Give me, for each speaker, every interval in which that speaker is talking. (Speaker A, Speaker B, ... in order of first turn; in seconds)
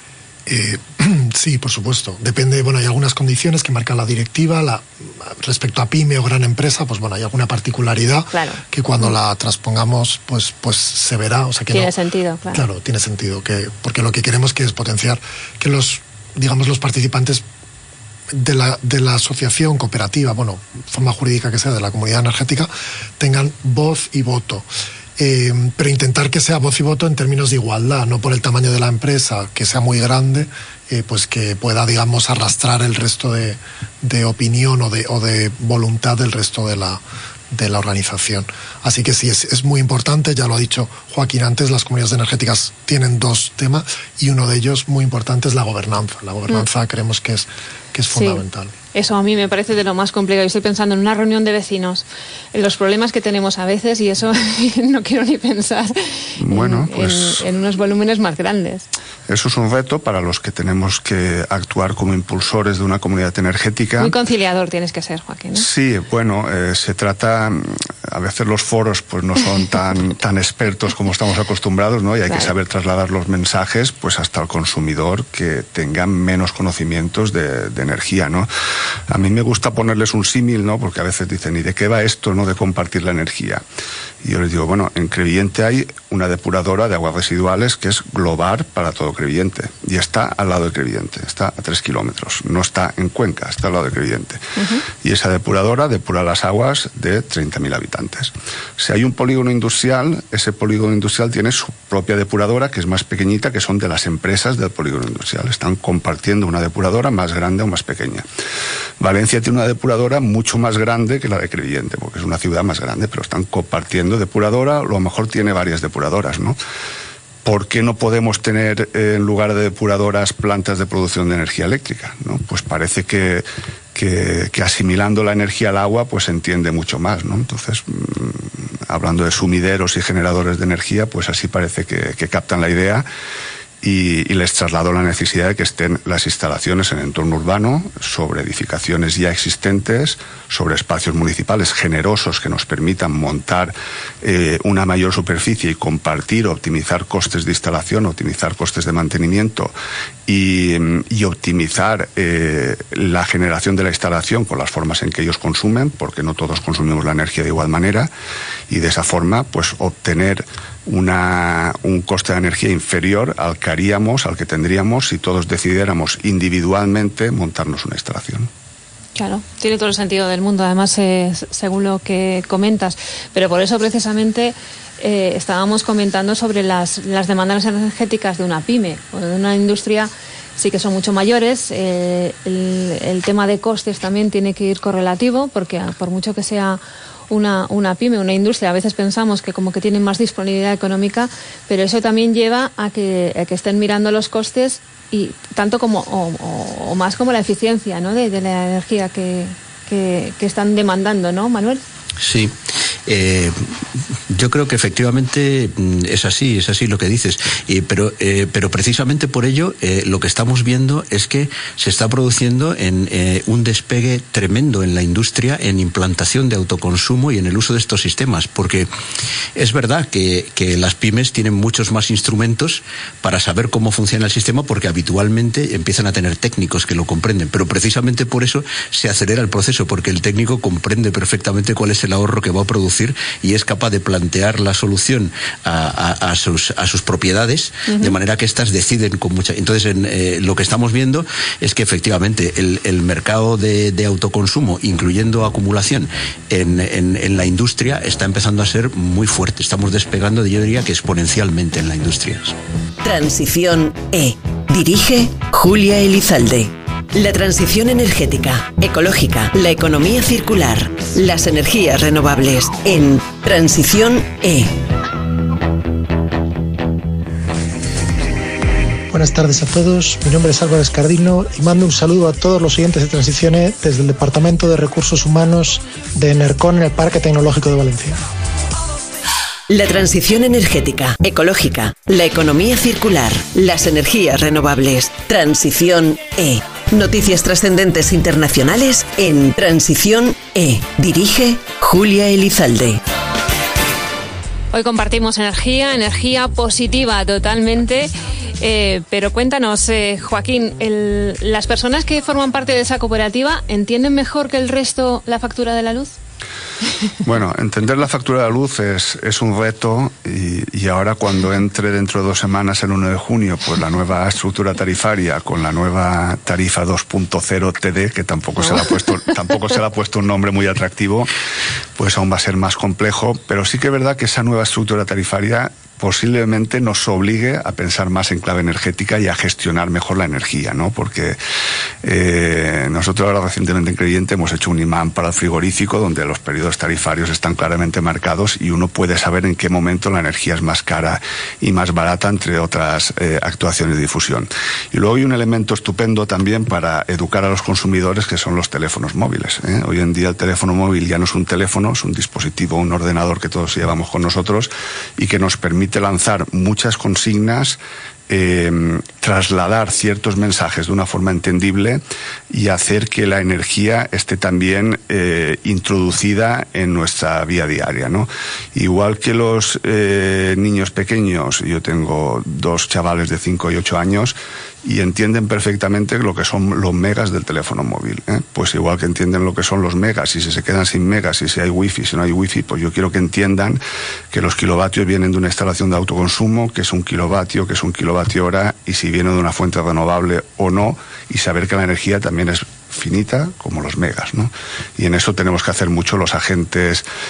Speaker A: 0.5-11.9, 12.5-17.4, 18.3-48.7
Speaker B: 8.3-9.1, 11.7-12.6, 48.1-48.4, 48.9-58.9, 64.0-65.7, 94.6-94.8, 169.2-201.8, 237.9-238.1, 294.7-306.2
Speaker C: 56.4-57.4, 59.3-64.2, 65.5-78.5, 79.1-83.6, 84.2-94.4, 95.0-108.2, 109.0-116.6, 117.5-133.1, 133.8-149.7, 150.3-158.1, 158.7-168.5, 307.2-321.3, 322.0-331.4, 332.0-383.8, 384.3-397.0
Speaker D: 202.2-203.7, 204.3-218.9, 219.6-252.6
Speaker E: 253.0-264.7, 279.7-293.0
Speaker F: 269.1-278.2